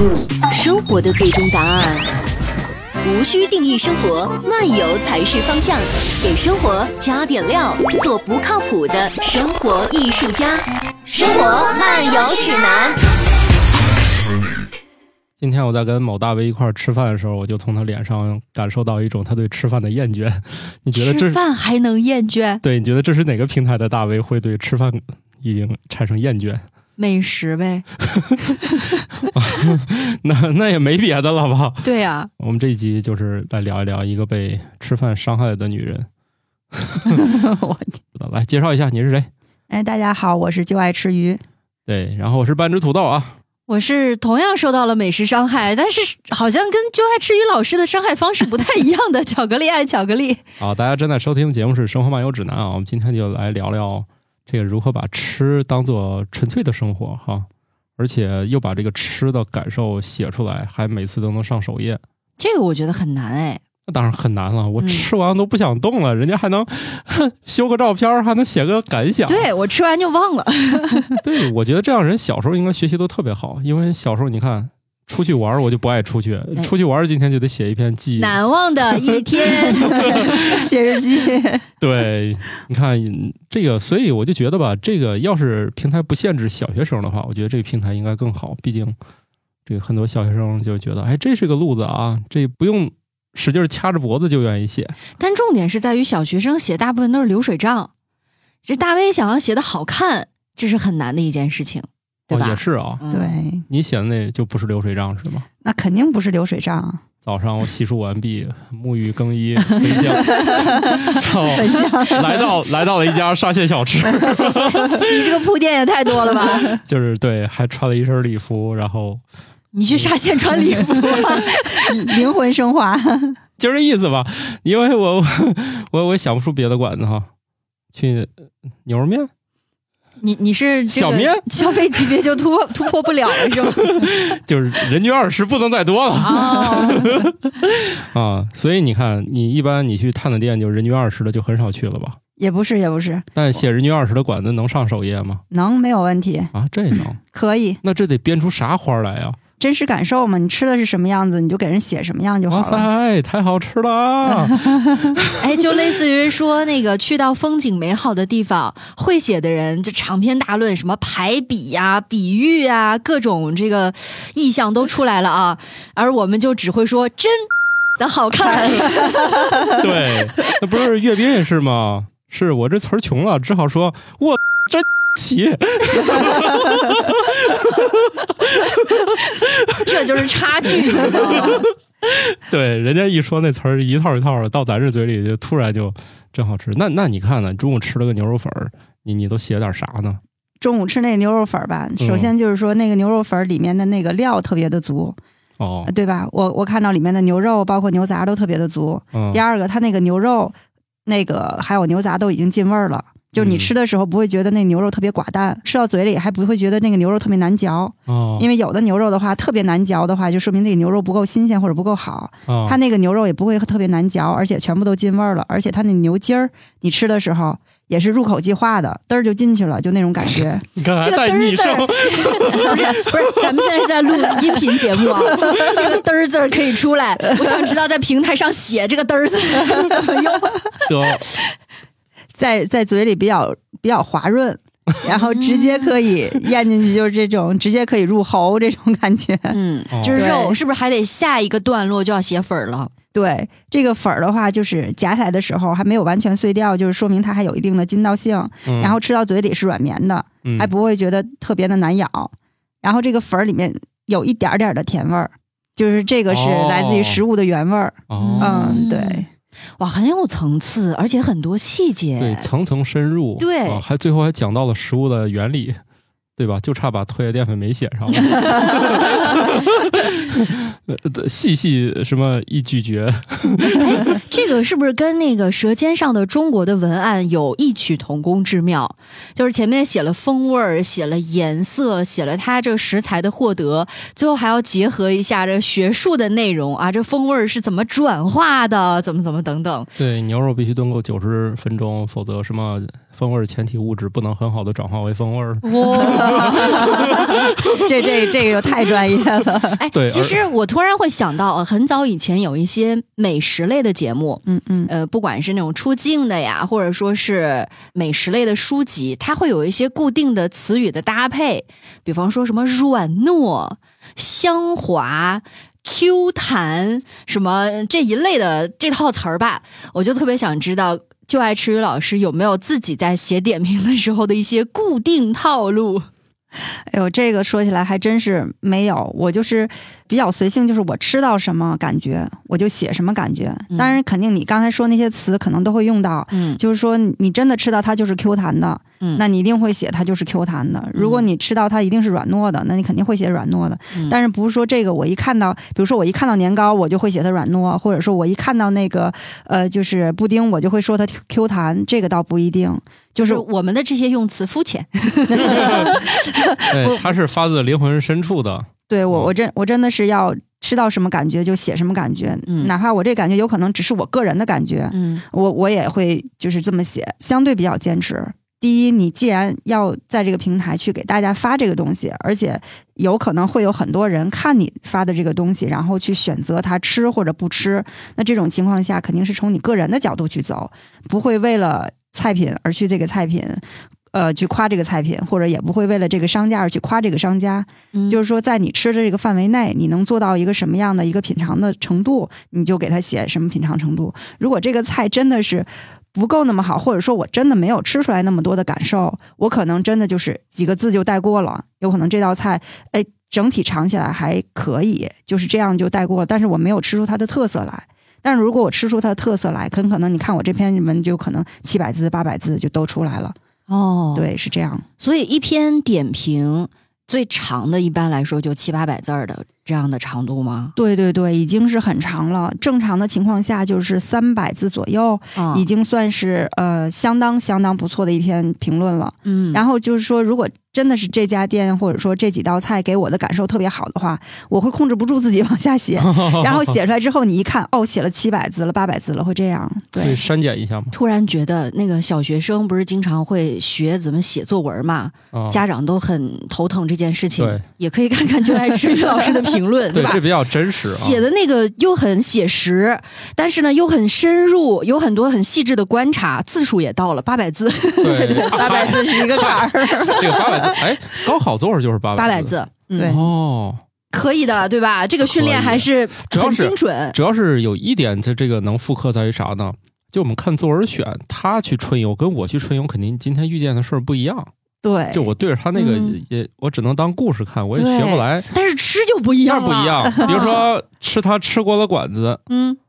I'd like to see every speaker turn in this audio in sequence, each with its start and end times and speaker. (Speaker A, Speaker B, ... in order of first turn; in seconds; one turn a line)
Speaker A: 0.5-2.1
Speaker A: 3.0-13.0
Speaker B: 15.4-21.4
Speaker C: 20.9-22.6
Speaker B: 22.6-26.6
Speaker C: 27.0-27.9
Speaker B: 28.1-28.4
Speaker C: 28.5-29.0
Speaker B: 29.3-31.9
Speaker C: 31.8-32.3
Speaker B: 32.4-36.1
Speaker B: 36.7-37.3
Speaker D: 37.0-38.0
Speaker B: 38.1-39.3
Speaker D: 39.7-41.4
Speaker B: 41.9-43.3
Speaker C: 43.7-50.4
Speaker B: 50.6-62.0
Speaker C: 62.4-63.6
Speaker B: 63.9-69.5
Speaker C: 64.8-65.1
Speaker C: 69.2-71.2
Speaker B: 71.2-80.7
Speaker C: 78.2-80.5
Speaker D: 79.9-81.6
Speaker B: 81.8-89.0
Speaker B: 89.7-95.0
Speaker C: 95.2-97.9
Speaker C: 98.6-103.4
Speaker B: 102.3-103.0
Speaker D: 103.1-103.6
Speaker B: 103.7-105.5
Speaker D: 105.6-107.0
Speaker B: 107.2-115.1
Speaker D: 109.8-112.5
Speaker C: 110.0-110.7
Speaker D: 114.1-115.0
Speaker C: 115.0-116.7
Speaker B: 116.2-119.2
Speaker C: 119.7-121.9
Speaker B: 119.9-121.2
Speaker D: 121.7-123.4
Speaker B: 123.6-127.3
Speaker B: 127.9-128.3
Speaker B: 128.8-129.3
Speaker C: 130.2-134.1
Speaker B: 130.9-132.2
Speaker B: 133.3-142.2
Speaker C: 136.2-137.1
Speaker D: 142.4-143.3
Speaker B: 143.3-145.4
Speaker D: 145.5-147.8
Speaker B: 146.5-147.2
Speaker B: 147.8-149.4
Speaker D: 149.6-152.9
Speaker B: 152.5-155.6
Speaker D: 154.2-155.1
Speaker C: 155.4-169.8
Speaker D: 168.9-169.8
Speaker B: 169.8-190.2
Speaker C: 179.8-181.7
Speaker D: 190.6-195.2
Speaker B: 192.0-192.3
Speaker B: 195.6-195.9
Speaker D: 195.8-220.7
Speaker B: 199.1-199.4
Speaker B: 203.3-203.7
Speaker B: 208.1-208.5
Speaker B: 212.5-212.8
Speaker B: 220.8-223.7
Speaker C: 221.0-230.8
Speaker B: 224.5-225.8
Speaker B: 230.9-231.3
Speaker D: 232.3-239.5
Speaker C: 235.1-235.9
Speaker C: 239.5-242.9
Speaker B: 239.9-240.2
Speaker D: 240.1-240.6
Speaker D: 243.1-252.3
Speaker B: 248.7-249.0
Speaker B: 250.4-250.7
Speaker D: 252.8-259.3
Speaker B: 256.3-257.2
Speaker B: 258.1-258.8
Speaker C: 258.2-259.2
Speaker C: 259.8-262.5
Speaker B: 262.2-265.8
Speaker C: 263.4-263.8
Speaker B: 266.4-274.2
Speaker C: 268.2-269.4
Speaker C: 273.8-289.9
Speaker B: 290.0-298.5
Speaker C: 295.6-297.4
Speaker D: 296.1-299.8
Speaker C: 299.8-326.1
Speaker B: 299.9-300.4
Speaker D: 304.4-304.9
Speaker D: 326.9-353.4
Speaker C: 333.7-334.0
Speaker C: 336.3-336.6
Speaker C: 340.9-341.3
Speaker C: 353.2-356.2
Speaker D: 355.3-356.9
Speaker B: 355.5-355.9
Speaker B: 356.7-359.3
Speaker D: 358.9-413.4
Speaker C: 362.5-362.7
Speaker C: 364.9-365.2
Speaker C: 387.9-388.2
Speaker C: 413.7-414.3
Speaker D: 414.1-414.8
Speaker C: 415.0-420.7
Speaker D: 420.8-440.2
Speaker C: 425.4-425.6
Speaker C: 429.2-429.6
Speaker B: 435.9-436.8
Speaker B: 440.0-440.9
Speaker C: 440.9-450.2
Speaker B: 445.3-445.6
Speaker B: 447.4-447.6
Speaker B: 449.9-451.2
Speaker C: 450.8-460.4
Speaker B: 458.0-463.8
Speaker D: 458.3-460.8
Speaker C: 462.1-463.1
Speaker D: 462.9-463.2
Speaker C: 464.1-467.1
Speaker B: 465.2-474.5
Speaker D: 474.8-475.3
Speaker B: 475.1-478.5
Speaker C: 475.8-476.2
Speaker C: 477.7-480.7
Speaker B: 479.4-482.4
Speaker C: 482.5-482.8